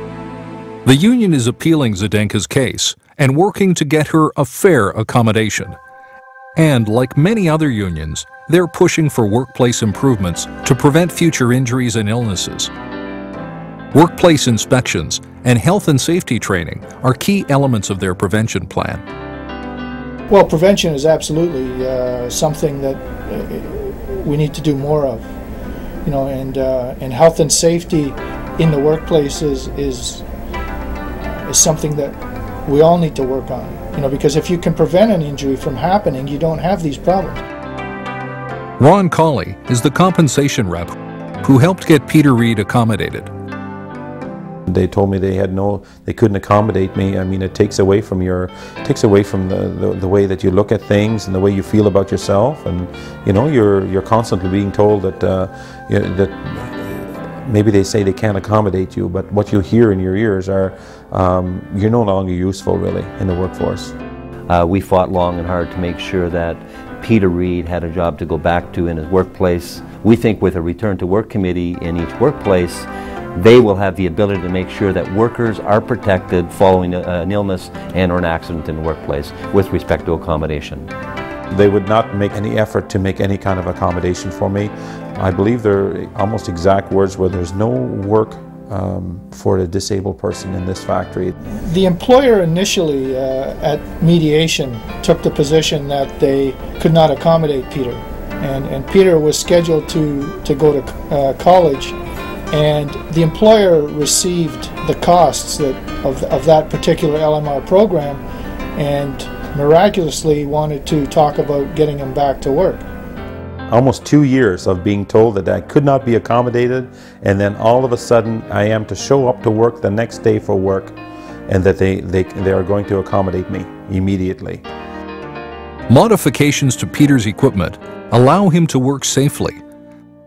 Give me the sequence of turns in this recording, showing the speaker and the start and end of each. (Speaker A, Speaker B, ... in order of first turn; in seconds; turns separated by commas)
Speaker A: 0.8-5.8, Speaker A: 6.6-12.7, Speaker A: 13.9-19.0, Speaker B: 20.3-25.3, Speaker B: 26.1-30.2, Speaker B: 31.2-37.4, Speaker A: 38.8-43.3, Speaker C: 44.7-63.9, Speaker D: 64.5-80.9, Speaker C: 81.5-91.3, Speaker B: 91.6-102.0, Speaker B: 102.5-108.2, Speaker B: 108.8-112.8, Speaker C: 113.7-121.0, Speaker C: 121.5-124.6, Speaker A: 125.9-129.6